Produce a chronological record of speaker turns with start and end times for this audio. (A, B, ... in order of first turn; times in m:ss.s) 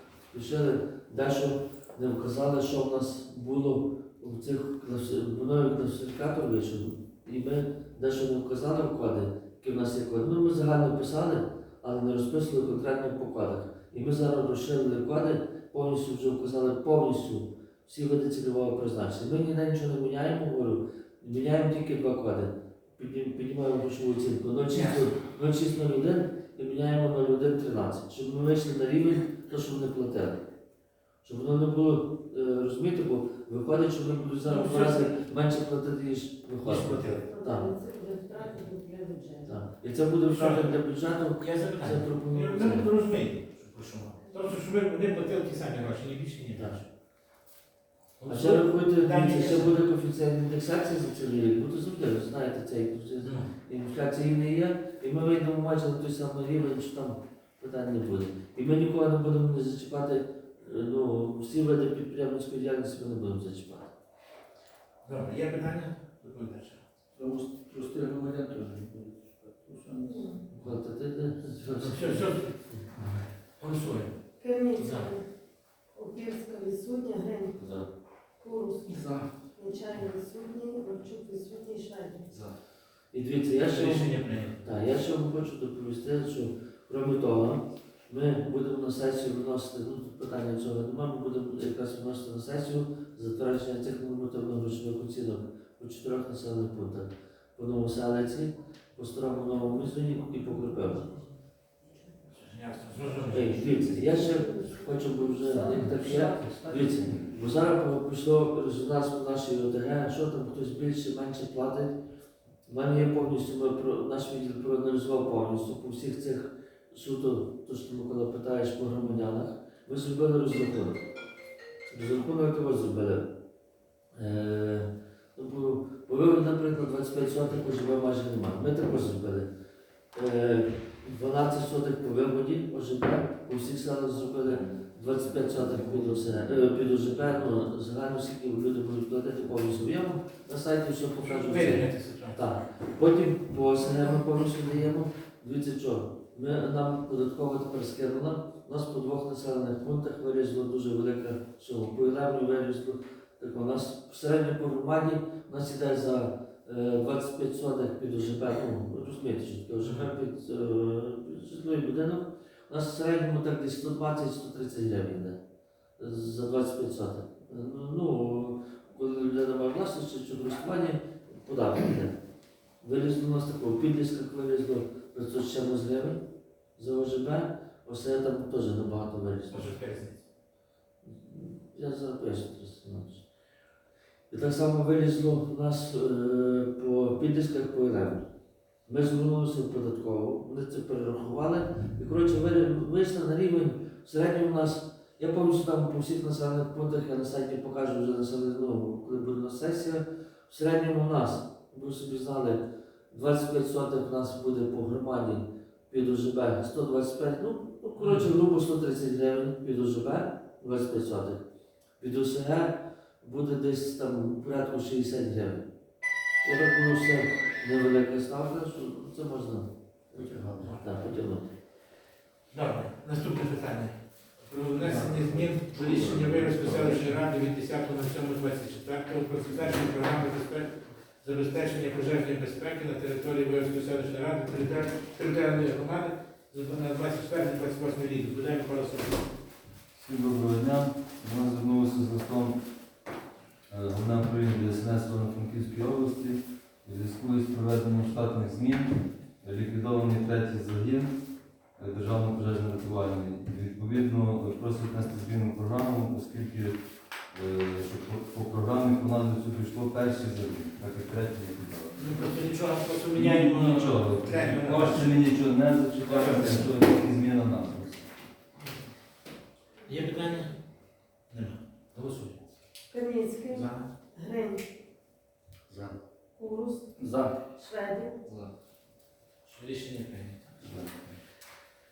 0:00.3-0:30.4 A
0:24.7-0:25.2 B
0:31.2-0:37.7 A
0:34.4-0:35.1 B
0:36.6-0:37.3 B
0:37.3-0:39.5 C
0:39.4-0:42.9 A
0:40.2-0:40.7 B
0:41.4-0:46.8 B
0:46.5-0:46.8 A
0:48.2-0:49.8 B
0:48.2-1:03.9 A
0:53.2-0:53.5 B
1:05.0-1:06.8 B
1:07.2-1:10.1 D
1:10.0-1:10.4 C
1:10.5-1:13.1 A
1:11.7-1:12.6 B
1:13.6-1:14.1 B
1:14.4-1:15.2 C
1:14.8-1:15.1 B
1:16.0-1:17.6 C
1:18.4-1:18.9 C
1:18.9-1:19.3 D
1:19.6-1:22.2 C
1:23.1-1:41.1 A
1:23.6-1:24.6 B
1:42.4-1:44.1 B
1:43.3-1:52.0 A
1:44.4-1:44.8 C
1:45.8-1:46.7 D
1:52.7-2:01.0 A
2:01.9-2:03.3 A
2:04.1-2:09.4 A
2:10.1-2:45.4 A
2:21.2-2:22.4 B
2:39.8-2:40.1 B
2:46.0-2:52.1 A
2:52.8-2:56.2 A
2:56.8-2:59.8 A
2:59.5-3:00.2 B
3:01.0-3:03.2 A
3:04.3-3:08.2 A
3:08.9-3:31.4 A
3:28.0-3:28.3 B
3:32.0-3:35.6 A
3:36.4-3:41.4 A
3:40.2-3:40.8 E
3:40.6-3:40.9 B
3:42.5-3:50.7 B
3:45.9-3:46.7 E
3:46.1-3:46.9 A
3:51.2-3:59.3 B
3:59.9-4:02.6 E
4:03.7-4:11.2 E
4:11.8-4:22.3 E
4:22.0-4:25.2 B
4:23.1-4:28.1 E
4:26.0-4:26.7 B
4:28.6-4:28.8 B
4:29.8-4:30.5 B
4:31.3-4:32.4 B
4:32.9-4:34.6 C
4:33.5-4:33.9 B
4:36.4-4:36.9 C
4:37.0-4:37.3 D
4:37.6-4:38.3 C
4:39.4-4:40.8 B